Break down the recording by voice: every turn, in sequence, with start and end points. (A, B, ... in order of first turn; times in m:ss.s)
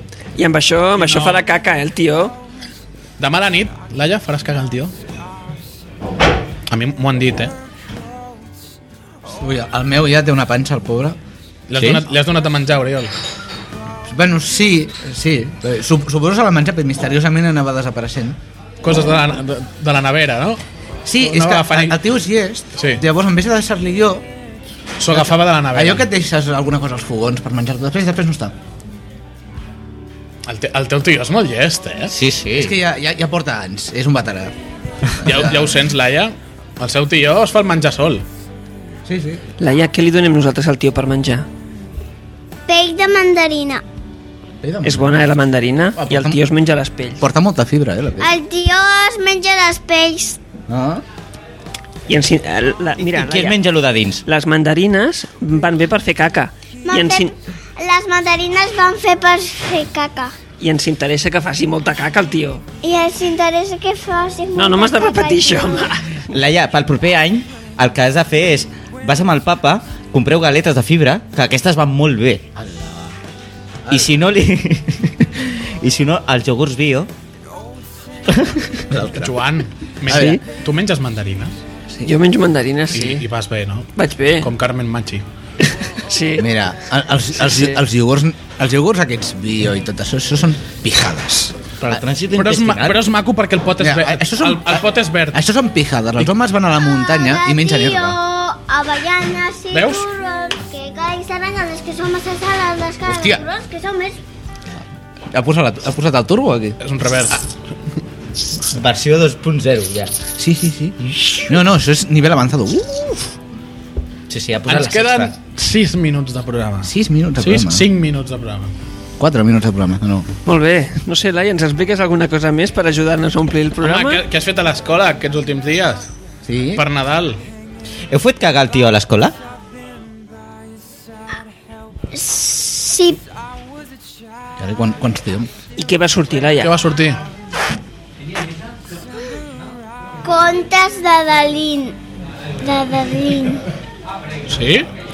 0:00.4-0:02.4 A
0:01.0-0:01.4 B
0:03.2-0:04.9 B
0:06.7-0:07.5 B
0:09.3-0:11.2 C
0:11.7-0:13.1 B
0:11.8-0:12.0 D
0:14.1-0:18.4 C
0:18.8-0:20.6 B
0:21.1-0:24.3 C
0:21.2-0:22.0 B
0:22.8-0:23.0 B
0:25.0-0:26.1 B
0:25.1-0:28.5 C
0:30.5-0:32.2 B
0:32.1-0:32.8 D
0:32.6-0:34.6 C
0:35.2-0:35.7 C
0:35.2-0:38.2 B
0:39.1-0:39.4 C
0:39.6-0:41.5 A
0:42.7-0:43.8 E
0:44.6-0:45.3 C
0:44.8-0:47.2 A
0:46.0-0:46.4 C
0:47.2-0:48.3 C
0:48.2-0:50.4 E
0:50.7-0:51.0 C
0:52.1-0:53.6 A
0:53.0-0:54.2 D
0:54.3-0:57.3 A
0:56.9-1:00.4 E
1:00.6-1:02.6 A
1:02.8-1:06.0 E
1:04.6-1:06.3 A
1:06.3-1:12.4 D
1:12.6-1:13.1 C
1:13.9-1:14.1 C
1:13.9-1:17.1 D
1:18.3-1:18.8 D
1:18.9-1:19.4 C
1:19.0-1:21.6 B
1:20.1-1:20.4 C
1:20.1-1:20.4 A
1:22.0-1:23.2 A
1:22.9-1:25.2 B
1:24.0-1:24.5 A
1:25.9-1:26.5 A
1:26.4-1:31.6 C
1:31.8-1:35.4 B
1:31.9-1:33.1 D
1:33.8-1:38.2 C
1:36.8-1:44.2 E
1:39.7-1:40.1 B
1:43.1-1:43.4 C
1:45.3-1:46.8 C
1:46.8-1:47.4 B
1:48.7-1:50.2 D
1:50.4-1:53.3 C
1:54.3-1:55.3 D
1:54.7-1:58.7 B
1:56.8-1:57.9 C
1:59.2-2:00.3 C
2:00.5-2:04.2 A
2:03.8-2:06.1 B
2:06.4-2:06.8 C
2:06.8-2:07.4 B
2:08.1-2:09.3 D
2:12.1-2:13.2 E
2:14.6-2:15.5 C
2:15.8-2:16.7 A
2:16.6-2:17.2 B
2:20.2-2:22.0 E
2:22.6-2:23.6 E
2:24.5-2:24.9 B